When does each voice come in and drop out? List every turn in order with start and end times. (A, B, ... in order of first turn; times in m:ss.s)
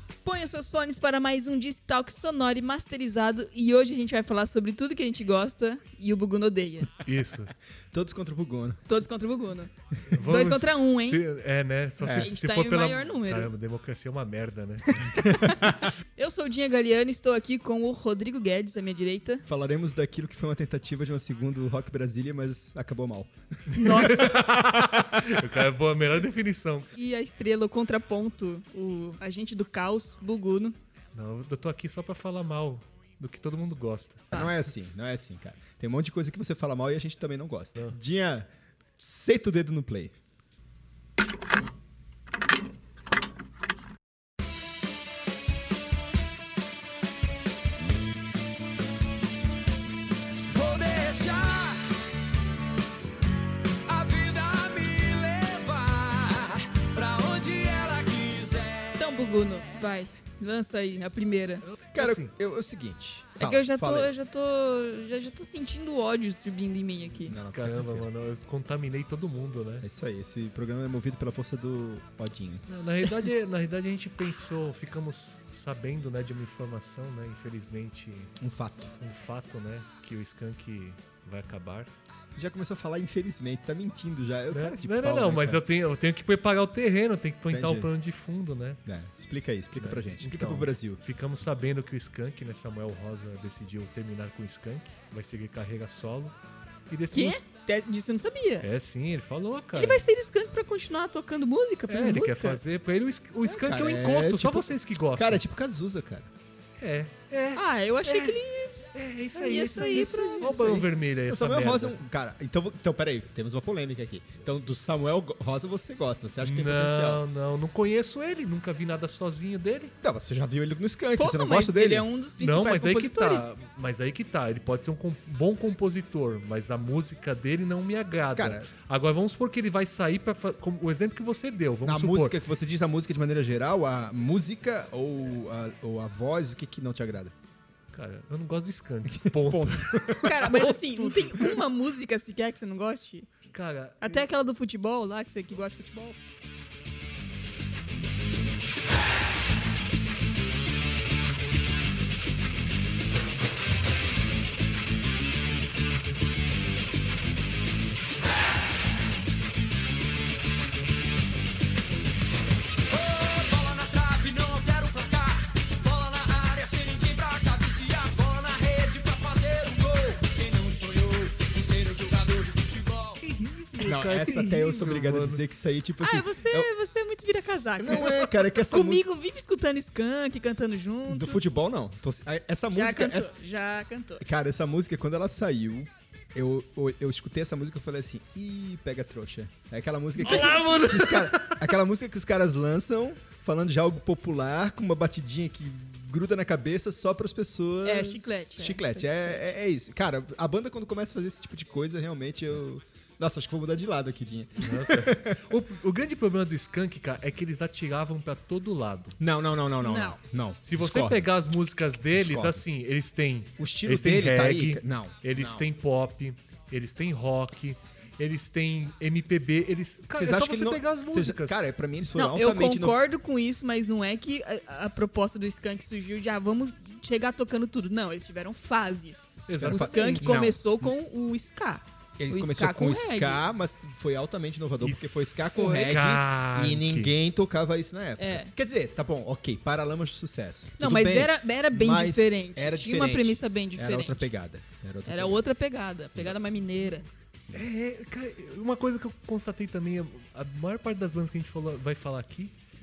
0:00.2-0:06.9 A
0:07.0-0:07.5 B
0:07.9-0:08.8 C
0:08.9-0:11.2 A
0:10.1-0:15.3 B
0:12.0-0:12.3 C
0:12.1-0:13.5 A
0:15.2-0:15.6 A
0:15.4-0:15.7 C
0:16.2-0:19.4 A
0:19.5-0:25.6 C
0:23.7-0:26.9 B
0:23.7-0:24.4 A
0:27.0-0:30.8 A
0:31.2-0:34.4 B
0:34.3-0:40.1 C
0:50.5-0:51.9 D
0:53.9-0:58.9 D
0:59.0-1:01.6 A
1:01.6-1:02.3 B
1:01.9-1:04.1 C
1:03.4-1:07.4 A
1:07.2-1:08.1 C
1:07.5-1:09.8 B
1:09.8-1:12.7 C
1:12.7-1:18.4 B
1:18.4-1:19.0 C
1:19.0-1:21.9 B
1:22.4-1:25.6 C
1:24.5-1:28.8 B
1:27.5-1:27.9 C
1:28.9-1:31.0 C
1:29.8-1:36.4 B
1:36.9-1:37.4 B
1:37.1-1:38.7 A
1:38.6-1:40.0 B
1:39.8-1:42.6 A
1:41.9-1:45.4 B
1:43.4-1:46.3 C
1:46.8-1:48.4 B
1:47.6-1:48.8 A
1:48.9-1:52.0 B
1:49.4-1:50.4 A
1:49.4-1:57.2 C
1:56.4-1:59.9 B
2:00.0-2:02.1 C
2:01.2-2:03.5 A
2:02.4-2:12.4 B
2:08.4-2:08.7 C
2:11.8-2:17.3 C
2:17.9-2:21.4 B
2:19.1-2:21.3 C
2:20.2-2:23.3 A
2:23.5-2:24.2 B
2:24.0-2:26.2 A
2:42.9-2:53.2 D
2:53.2-2:55.4 B
2:53.8-2:56.7 C
2:56.0-3:01.4 A
2:57.8-2:59.0 C
3:01.1-3:03.4 C
3:02.7-3:04.2 A
3:04.2-3:25.5 C
3:10.2-3:11.7 B
3:10.3-3:10.6 A
3:17.8-3:19.4 A
3:24.6-3:29.2 B
3:29.2-3:31.3 C
3:29.8-3:30.2 A
3:30.6-3:41.6 B
3:32.1-3:32.6 C
3:33.6-3:35.7 C
3:40.1-3:43.0 C
3:42.2-3:53.4 A
3:49.5-3:50.4 B
3:49.5-3:50.6 C
3:52.2-4:05.4 C
3:54.8-3:57.1 B
3:55.5-3:56.0 A
3:58.2-3:58.5 A
4:00.8-4:04.3 A
4:05.1-4:07.1 A
4:06.2-4:06.5 C
4:07.5-4:12.5 B